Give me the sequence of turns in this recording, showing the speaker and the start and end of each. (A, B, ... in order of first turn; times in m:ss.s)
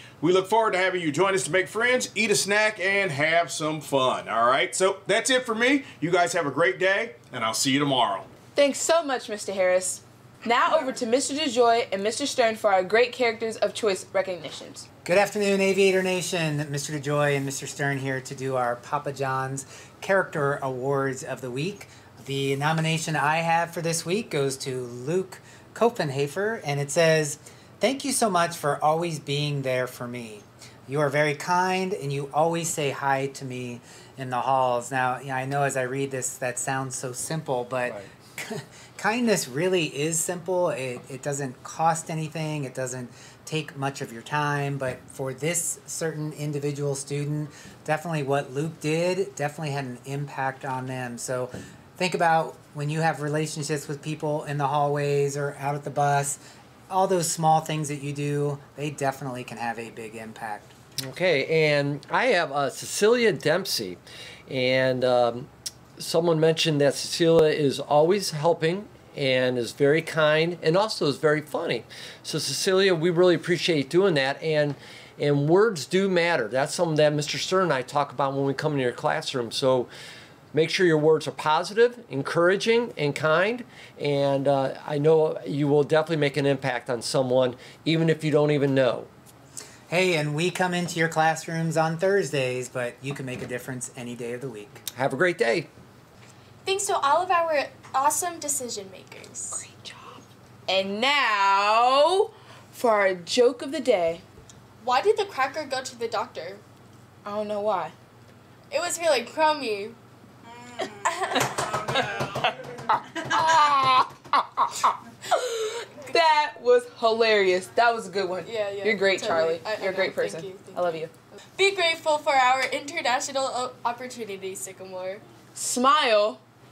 0:00.2-0:08.3 A
0:08.6-0:14.8 B
0:15.0-1:00.7 C
1:01.0-1:19.9 D
1:20.5-1:29.1 D
1:29.9-1:34.8 C
1:35.0-1:35.7 D
1:36.6-1:39.6 E
1:39.5-1:44.2 B
1:44.8-1:46.6 E
1:47.2-1:47.9 B
1:48.7-1:50.0 E
1:51.0-1:52.2 E
1:53.2-2:01.1 B
1:58.4-2:01.0 E
2:01.6-2:05.2 E
2:05.6-2:06.4 B